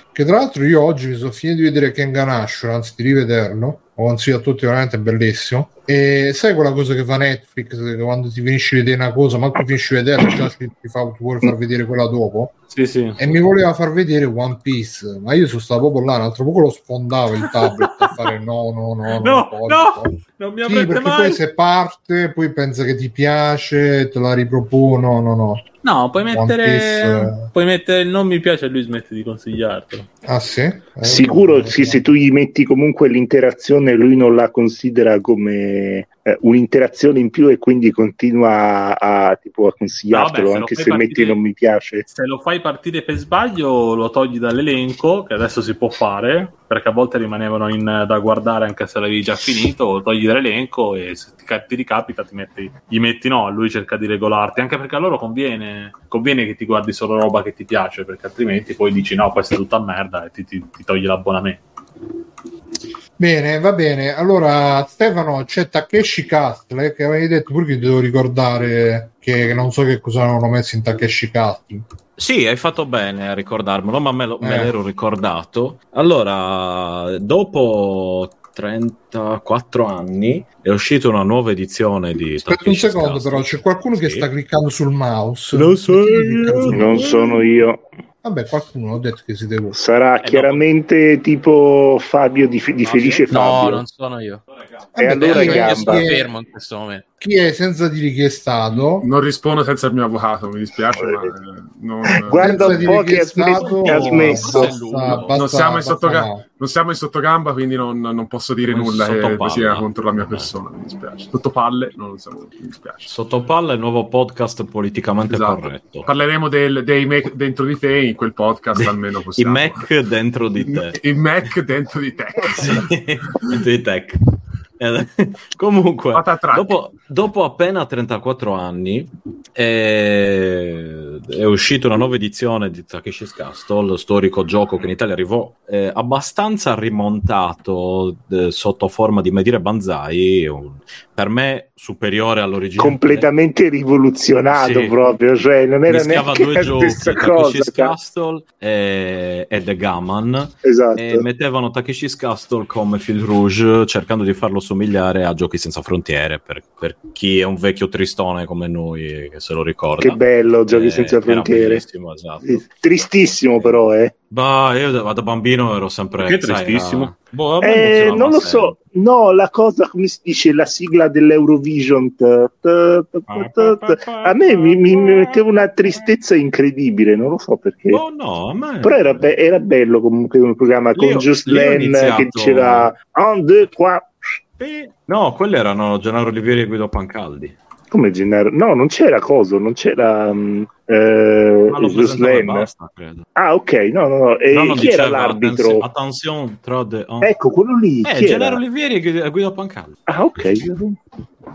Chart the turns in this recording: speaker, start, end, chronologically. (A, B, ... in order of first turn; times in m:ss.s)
0:00.1-0:12.5 A
0:12.7-0:13.2 B
0:13.2-0:25.7 A
0:17.4-0:18.2 B
0:19.1-0:21.4 B
0:25.8-0:30.1 B
0:26.2-0:27.5 A
0:30.2-0:32.1 A
0:31.0-0:42.0 C
0:40.1-0:41.4 B
0:42.1-1:01.6 B
1:03.2-1:11.8 A
1:12.2-1:24.3 D
1:14.4-1:14.7 A
1:22.4-1:27.1 A
1:25.7-1:26.8 D
1:26.7-1:27.8 C
1:28.2-1:29.8 A
1:29.7-1:33.8 C
1:30.2-1:30.6 B
1:33.0-1:34.4 E
1:34.9-1:36.3 A
1:35.0-1:36.0 C
1:35.1-1:37.0 E
1:37.2-1:39.1 A
1:39.0-1:42.9 F
1:40.9-1:41.3 C
1:42.1-1:44.8 C
1:42.3-1:46.4 A
1:43.5-1:45.5 D
1:45.3-1:53.1 F
1:48.6-1:50.5 D
1:53.0-1:56.1 D
1:55.3-1:59.8 F
1:58.7-2:01.0 D
2:00.6-2:03.5 F
2:02.5-2:04.2 D
2:04.8-2:23.3 D
2:06.1-2:06.7 F
2:22.8-2:27.9 C
2:24.5-2:25.0 D
2:25.9-2:42.7 D
2:30.6-2:31.2 C
2:40.0-2:41.8 C
2:42.4-2:44.1 C
2:44.3-2:48.7 D
2:46.2-2:47.2 B
2:47.6-2:58.0 C
2:53.3-2:54.2 B
2:53.6-2:55.4 D
2:57.9-2:59.3 D
2:58.8-3:04.4 C
3:00.9-3:02.9 D
3:04.6-3:07.5 D
3:07.9-3:12.7 C
3:11.7-3:13.2 D
3:13.4-3:15.8 C
3:14.5-3:17.3 D
3:17.2-3:18.6 C
3:18.0-3:20.0 D
3:20.1-3:21.0 C